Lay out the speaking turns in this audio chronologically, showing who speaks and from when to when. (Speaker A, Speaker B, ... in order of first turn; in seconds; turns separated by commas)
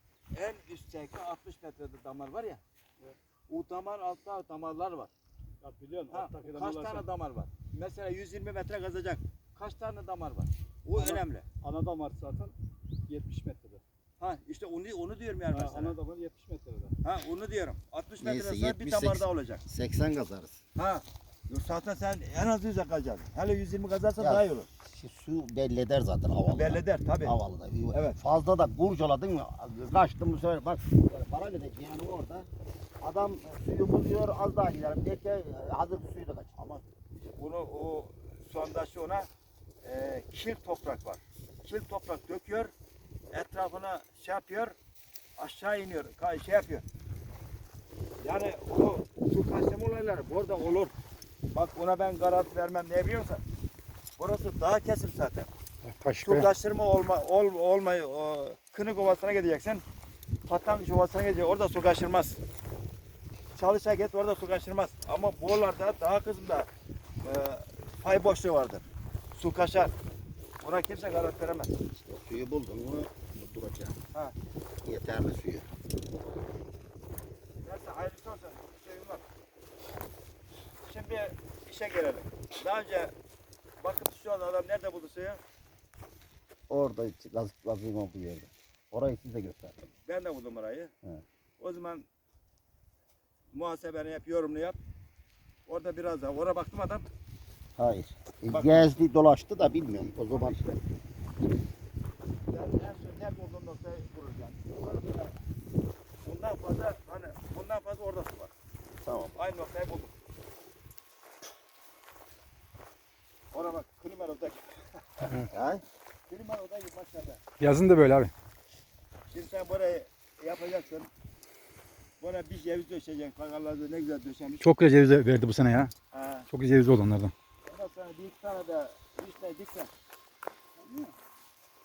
Speaker A: 0.3-2.6, Speaker A: 3.5-5.1, Speaker B: 5.6-7.0, Speaker A: 6.1-11.4, Speaker B: 10.9-12.5, Speaker B: 13.1-13.8, Speaker A: 14.2-15.9, Speaker B: 15.5-16.9, Speaker A: 17.0-19.6, Speaker C: 18.2-20.6, Speaker A: 20.8-24.7, Speaker C: 24.2-32.5, Speaker A: 26.5-27.4, Speaker A: 27.9-28.2, Speaker C: 33.0-36.5, Speaker A: 36.5-36.8, Speaker A: 37.3-39.3, Speaker A: 39.8-42.7, Speaker A: 43.3-44.7, Speaker A: 45.4-46.8, Speaker A: 48.2-50.9, Speaker A: 51.5-53.4, Speaker A: 54.2-55.5, Speaker D: 55.8-56.5, Speaker A: 56.2-59.8, Speaker A: 60.5-62.4, Speaker A: 63.5-66.7, Speaker A: 67.2-69.9, Speaker A: 70.6-71.8, Speaker C: 71.9-74.0, Speaker C: 74.8-75.7, Speaker A: 77.6-79.2, Speaker A: 80.8-83.1, Speaker A: 83.8-85.4, Speaker C: 86.7-89.8, Speaker A: 90.0-90.9, Speaker A: 91.6-92.0, Speaker A: 93.5-94.8, Speaker A: 95.7-97.1, Speaker C: 97.8-100.6, Speaker A: 98.5-98.9, Speaker A: 100.1-100.8, Speaker A: 102.5-105.3, Speaker A: 106.2-108.5, Speaker C: 109.0-109.3, Speaker A: 109.3-110.1, Speaker A: 113.5-115.3, Speaker C: 115.5-115.8, Speaker A: 116.3-117.4, Speaker D: 117.6-118.3, Speaker A: 119.3-121.1, Speaker A: 122.2-124.7, Speaker D: 124.6-125.9, Speaker A: 126.1-126.5, Speaker D: 126.5-127.3, Speaker A: 127.7-129.9, Speaker B: 130.8-131.1